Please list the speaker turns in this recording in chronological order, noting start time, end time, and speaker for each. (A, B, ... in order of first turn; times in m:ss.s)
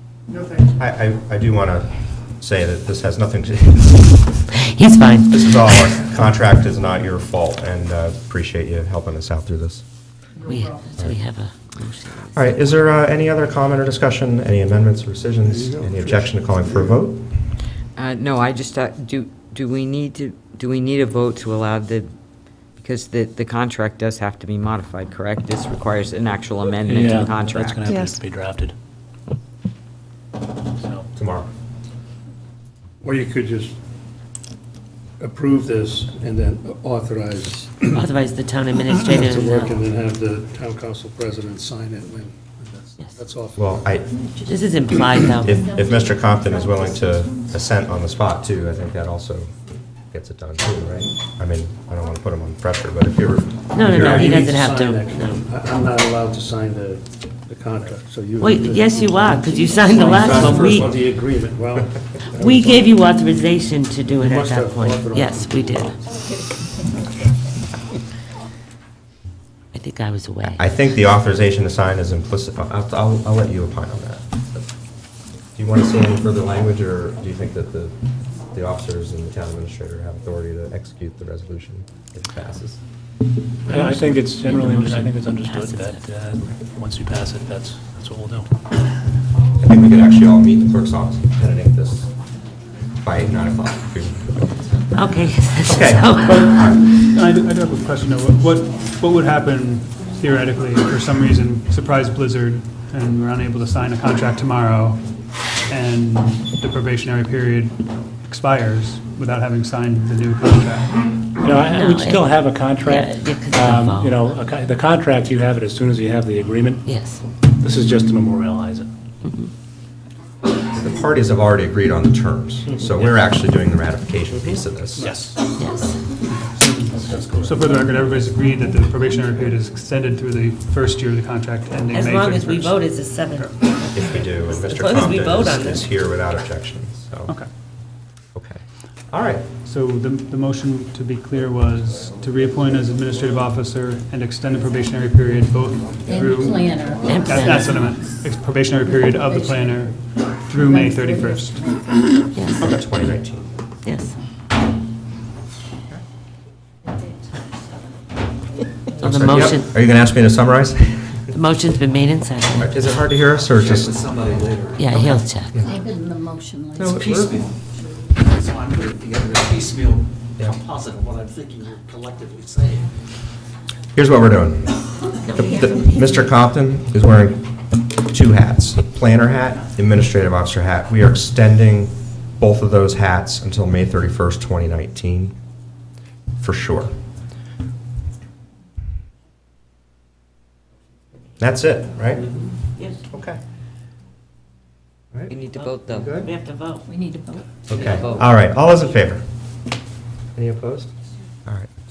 0:00.4-0:04.2 A
0:04.6-0:05.4 B
0:05.3-0:09.8 A
0:10.5-0:12.3 B
0:12.3-0:17.3 A
0:15.5-0:16.9 C
0:18.0-0:22.1 D
0:22.8-0:28.0 D
0:26.9-0:28.7 E
0:30.8-0:31.1 E
0:31.2-0:31.5 A
0:33.0-0:33.8 C
0:35.2-0:38.0 C
0:37.9-0:39.8 B
0:39.0-0:43.9 C
0:43.6-0:44.1 A
0:44.5-0:45.6 B
0:45.4-0:49.5 A
0:45.8-0:46.1 F
0:50.1-0:54.5 A
0:53.7-0:55.4 B
0:53.8-1:02.9 C
0:58.4-1:01.0 B
1:02.3-1:06.0 B
1:04.2-1:06.0 C
1:09.7-1:10.7 B
1:10.5-1:14.7 A
1:15.6-1:18.0 A
1:18.5-1:22.8 A
1:23.7-1:28.5 E
1:23.7-1:26.0 B
1:29.6-1:32.1 A
1:33.0-1:34.6 A
1:34.9-1:36.5 B
1:35.6-1:36.8 A
1:36.2-1:45.0 G
1:45.7-1:51.1 G
1:51.4-1:56.9 E
1:51.7-1:52.3 B
1:52.8-1:54.2 B
1:56.9-1:57.2 B
1:57.6-1:58.9 E
2:00.7-2:05.1 A
2:05.0-2:05.3 C
2:05.0-2:05.3 E
2:05.6-2:05.9 B
2:06.3-2:12.8 G
2:07.1-2:07.6 E
2:11.9-2:15.9 B
2:13.9-2:17.3 A
2:18.4-2:19.4 A
2:19.6-2:31.6 G
2:26.1-2:27.4 F
2:27.1-2:27.7 B
2:29.1-2:29.7 F
2:30.6-2:32.1 F
2:32.4-2:32.7 B
2:32.6-2:33.5 A
2:33.8-2:34.2 B
2:39.0-2:41.3 A
2:39.0-2:39.7 B
2:41.3-2:42.7 B
2:42.5-2:44.1 A
2:43.6-2:44.8 H
2:44.8-2:45.6 B
2:44.9-2:45.8 A
2:45.6-2:47.4 F
2:46.8-2:47.4 A
2:48.2-2:52.9 H
2:54.0-3:05.4 A
2:55.3-2:55.9 B
3:06.4-3:06.9 A
3:11.4-3:12.3 A
3:13.1-3:13.4 A
3:15.3-3:16.2 D
3:16.2-3:16.8 B
3:16.9-3:17.5 F
3:17.7-3:19.2 A
3:17.8-3:18.3 D
3:20.4-3:20.9 A